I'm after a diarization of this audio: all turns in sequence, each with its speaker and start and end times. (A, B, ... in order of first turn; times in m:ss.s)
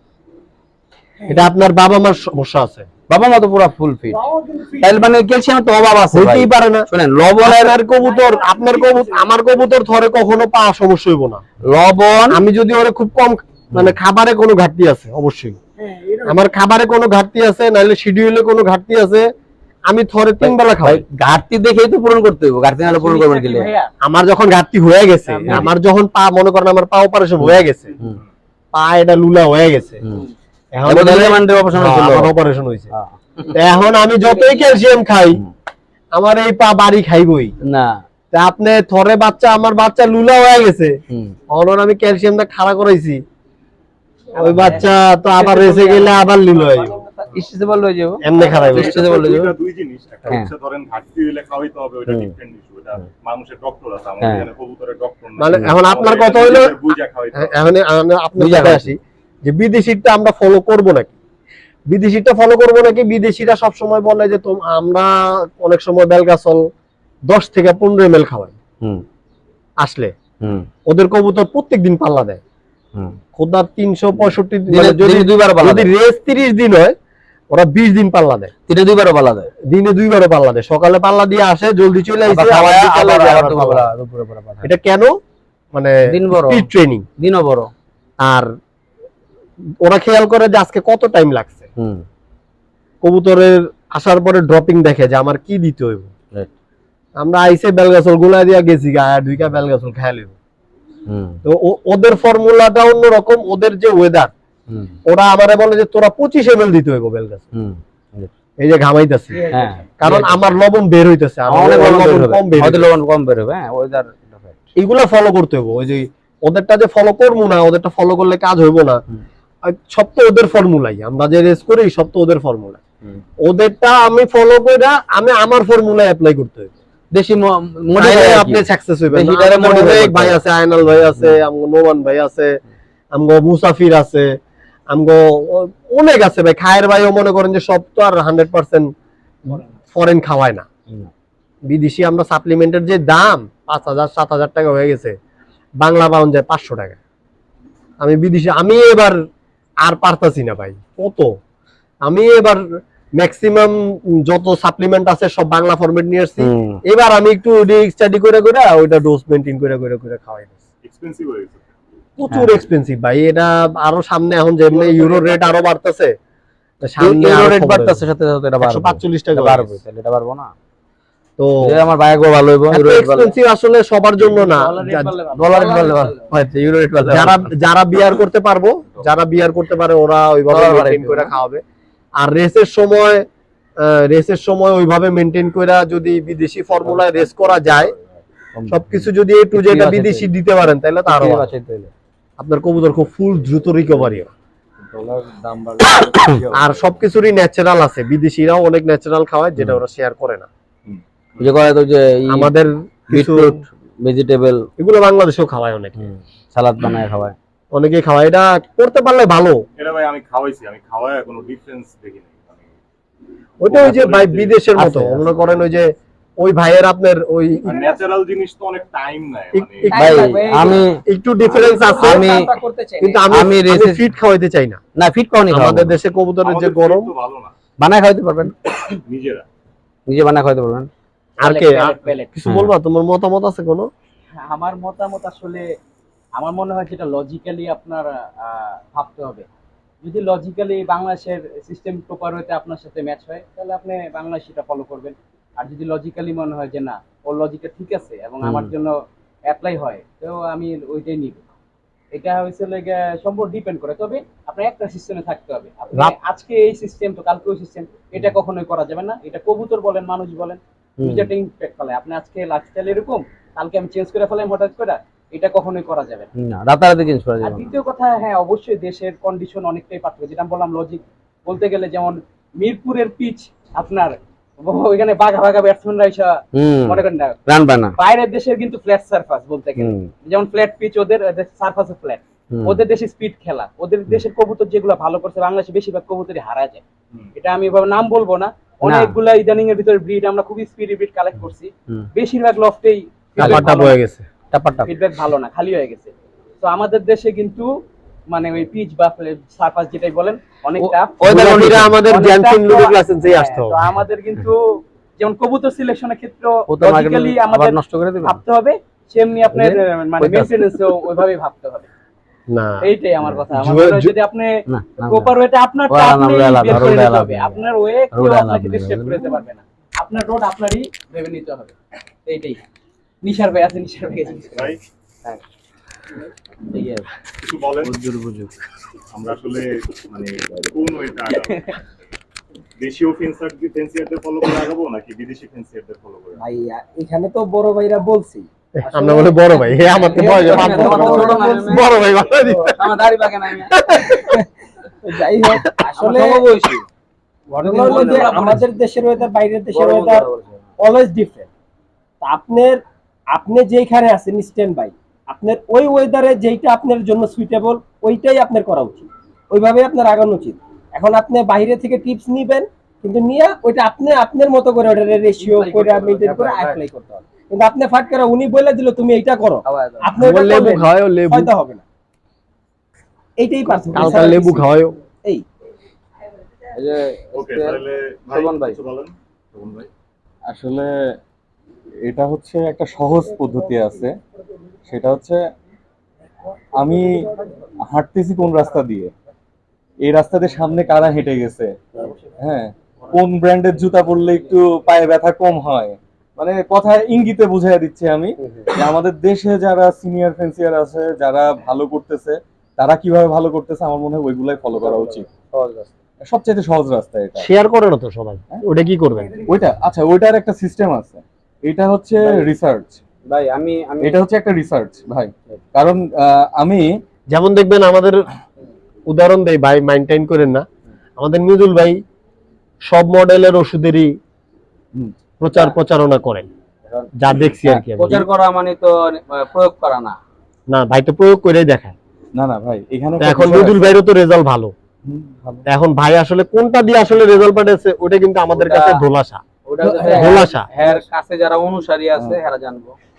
0:01.3-0:02.9 A
0:03.1-0:04.2 B
0:04.3-0:04.7 C
0:04.8-0:07.8 B
0:06.1-0:06.9 A
0:07.4-0:11.4 A
0:08.6-0:09.0 D
0:11.7-0:12.4 B
0:12.3-0:15.6 A
0:15.8-0:16.5 D
0:16.3-0:19.3 A
0:19.9-0:21.0 A
0:20.4-0:23.7 B
0:22.8-0:23.9 D
0:24.0-0:27.9 A
0:25.3-0:25.7 D
0:27.4-0:28.2 B
0:28.7-0:30.0 A
0:30.7-0:32.9 A
0:30.9-0:32.4 B
0:32.9-0:33.2 B
0:33.5-0:35.4 A
0:36.1-0:37.6 A
0:37.6-0:38.0 B
0:38.3-0:40.9 A
0:41.1-0:41.4 B
0:41.5-0:43.2 A
0:44.4-0:47.2 D
0:44.4-0:47.0 A
0:47.3-0:49.5 B
0:48.2-0:49.0 A
0:48.3-0:57.6 E
0:52.1-0:52.3 B
0:54.2-0:54.5 B
0:55.4-0:56.8 A
0:57.4-1:01.2 A
0:58.4-0:59.0 B
1:01.9-1:06.6 A
1:07.3-1:08.6 A
1:09.8-1:10.1 A
1:10.9-1:12.4 A
1:13.4-1:17.0 A
1:14.7-1:15.9 B
1:17.5-1:18.5 A
1:18.7-1:19.5 B
1:19.7-1:23.9 A
1:22.3-1:24.7 B
1:24.6-1:25.1 A
1:25.7-1:27.0 A
1:26.1-1:26.7 B
1:27.2-1:27.7 B
1:28.2-1:28.5 A
1:29.8-1:31.6 A
1:31.8-1:32.0 B
1:33.0-1:36.1 A
1:37.2-1:40.4 A
1:41.1-1:41.4 B
1:41.4-1:44.3 A
1:44.7-1:45.0 B
1:45.1-1:47.4 A
1:47.6-1:48.3 B
1:48.6-1:49.4 A
1:49.3-1:49.8 D
1:49.5-1:50.5 B
1:50.0-1:52.9 A
1:51.5-1:54.6 B
1:54.8-1:59.0 A
1:59.6-2:02.8 A
2:03.4-2:06.7 A
2:07.1-2:10.4 B
2:08.0-2:12.6 A
2:13.1-2:14.4 A
2:14.9-2:18.9 A
2:19.4-2:20.7 A
2:21.7-2:25.2 A
2:25.8-2:27.0 A
2:28.0-2:29.2 A
2:29.8-2:31.4 A
2:32.0-2:32.6 A
2:33.2-2:40.6 A
2:36.4-2:36.8 B
2:40.8-2:41.7 E
2:42.2-2:46.2 A
2:42.3-2:42.6 B
2:45.0-2:45.3 E
2:46.8-2:48.0 A
2:47.0-2:50.5 B
2:48.6-2:49.8 A
2:51.4-2:51.8 A
2:51.6-2:53.4 B
2:52.7-2:55.2 A
2:54.5-2:56.2 D
2:54.9-2:57.6 B
2:57.1-3:01.6 A
3:00.5-3:01.3 B
3:02.2-3:03.3 A
3:03.8-3:07.9 A
3:06.8-3:10.3 B
3:08.7-3:11.5 A
3:11.1-3:11.9 B
3:12.4-3:14.3 A
3:14.8-3:17.0 F
3:16.5-3:20.5 A
3:20.9-3:21.5 E
3:21.4-3:22.5 B
3:22.3-3:23.6 A
3:23.1-3:24.7 B
3:24.8-3:26.0 A
3:26.0-3:27.4 B
3:27.7-3:29.6 A
3:29.8-3:32.7 E
3:33.6-3:37.9 A
3:33.7-3:34.6 E
3:34.8-3:35.5 B
3:37.6-3:40.1 E
3:39.5-3:42.4 A
3:39.9-3:41.0 B
3:39.9-3:40.8 D
3:41.5-3:43.2 C
3:42.0-3:42.5 B
3:43.0-3:44.8 A
3:43.3-3:44.0 B
3:45.0-3:46.0 B
3:45.5-3:47.1 A
3:46.4-3:47.5 E
3:47.8-3:48.5 B
3:49.1-3:49.4 E
3:50.1-3:50.9 B
3:51.4-3:53.9 A
3:51.4-3:52.3 D
3:52.4-3:52.7 B
3:54.4-3:55.7 D
3:56.4-3:59.5 D
4:00.0-4:09.0 D
4:08.4-4:08.7 B
4:09.5-4:11.4 D
4:12.1-4:26.3 D
4:21.0-4:21.3 B
4:26.4-4:27.6 B
4:27.4-4:37.4 D
4:36.5-4:38.0 B
4:38.0-4:46.8 D
4:39.8-4:40.1 B
4:42.5-4:42.8 B
4:47.4-4:54.0 D
4:48.8-4:49.2 B
4:53.4-4:53.6 B
4:53.4-4:54.2 A
4:54.5-4:54.9 B
4:54.9-4:57.7 D
4:58.3-5:11.9 D
5:00.8-5:02.0 B
5:01.2-5:03.9 A
5:06.7-5:08.4 B
5:09.5-5:10.8 B
5:12.5-5:12.9 A
5:12.8-5:21.7 D
5:13.5-5:14.1 A
5:14.7-5:15.3 B
5:15.9-5:19.3 B
5:22.3-5:22.6 D
5:23.2-5:24.7 D
5:24.6-5:24.8 E
5:26.7-5:27.1 D
5:27.4-5:28.0 E
5:27.8-5:28.5 B
5:29.1-5:31.7 E
5:31.4-5:31.8 D
5:32.8-5:36.4 E
5:36.4-5:39.4 C
5:38.8-5:42.9 A
5:39.9-5:43.7 B
5:40.1-5:41.9 C
5:40.2-5:41.1 D
5:43.7-5:44.4 A
5:45.0-5:46.4 C
5:46.0-5:46.9 B
5:47.5-5:50.3 C
5:47.6-5:48.6 B
5:47.7-5:48.6 D
5:49.7-5:50.6 B
5:50.8-5:51.5 C
5:52.2-5:52.8 C
5:53.3-6:11.8 C
6:05.4-6:06.8 B
6:09.7-6:10.1 B
6:10.2-6:11.5 A
6:13.4-6:14.7 C
6:13.9-6:15.0 A
6:16.7-6:18.8 B
6:17.3-6:19.9 E
6:20.5-6:20.9 F
6:22.1-6:24.1 F
6:24.9-6:25.4 F
6:26.8-6:27.3 F
6:27.9-6:29.1 F
6:30.0-6:31.8 F
6:32.4-6:45.3 F
6:38.4-6:38.8 B
6:44.8-6:45.9 B
6:46.2-6:47.5 F
6:47.4-6:49.4 A
6:49.4-6:53.0 F
6:52.2-6:52.5 B
6:53.3-6:54.2 B
6:54.0-6:56.9 F
6:57.3-6:58.3 A
6:59.1-7:00.6 A
7:01.2-7:02.0 A
7:02.9-7:04.1 A
7:05.4-7:06.5 A
7:07.2-7:08.3 A
7:07.7-7:10.2 B
7:10.7-7:12.0 A
7:12.3-7:14.0 F
7:13.2-7:14.7 A
7:15.1-7:15.7 F
7:15.7-7:19.4 A
7:18.5-7:19.0 B
7:19.7-7:23.0 B
7:19.8-7:21.0 F
7:20.1-7:20.7 A